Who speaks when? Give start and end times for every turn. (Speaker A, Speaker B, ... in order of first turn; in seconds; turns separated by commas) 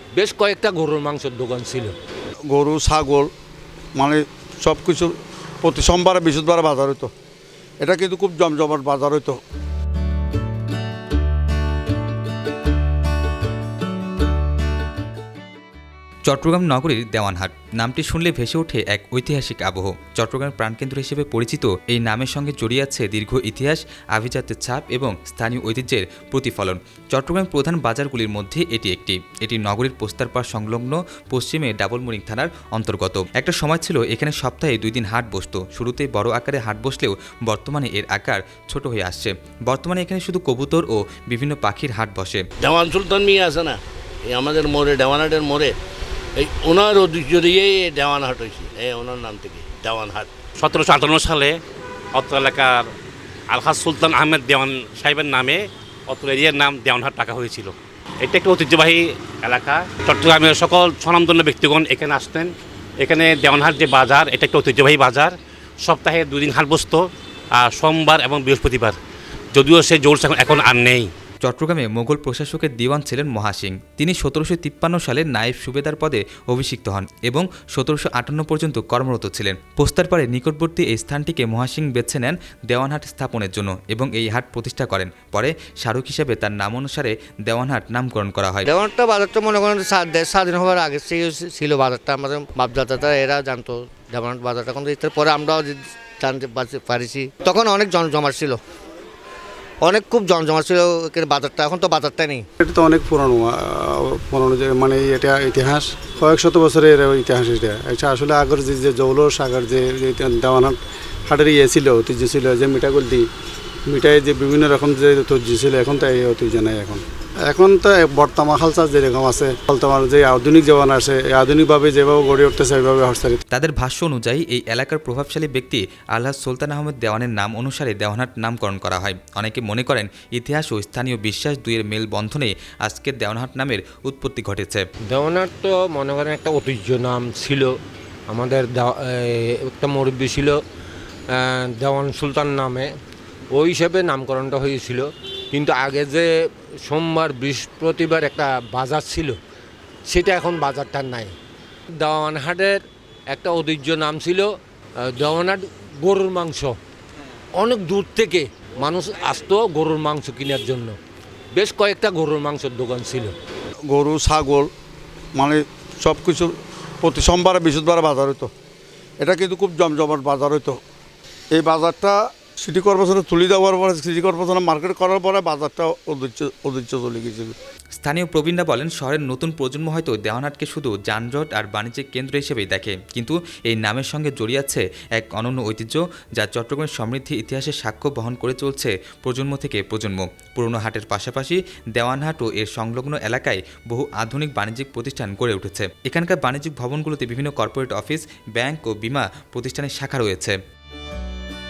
Speaker A: 0.1-1.9, Speaker B: 2.5-3.3, Speaker B: 4.0-7.1, Speaker B: 7.8-9.4, Speaker C: 16.2-42.4, Speaker D: 42.6-43.8, Speaker D: 44.3-45.7, Speaker D: 46.4-50.3, Speaker E: 50.6-51.6, Speaker E: 52.1-52.9, Speaker E: 53.5-67.0, Speaker E: 67.6-69.0, Speaker E: 69.5-71.1, Speaker C: 71.4-88.7, Speaker F: 88.6-98.6, Speaker F: 99.8-102.4, Speaker G: 102.6-103.5, Speaker G: 104.3-110.8, Speaker G: 111.3-113.2, Speaker G: 113.9-117.0, Speaker G: 117.5-123.4, Speaker C: 123.5-134.8, Speaker A: 135.1-137.7, Speaker A: 138.3-140.6, Speaker A: 141.3-142.9, Speaker A: 143.5-146.3, Speaker A: 146.8-149.4, Speaker A: 150.1-151.3, Speaker A: 152.0-156.8, Speaker A: 157.6-161.0, Speaker A: 161.5-163.3, Speaker B: 163.9-164.7, Speaker B: 165.3-168.5, Speaker B: 169.2-170.8, Speaker B: 171.5-177.5, Speaker C: 177.9-200.6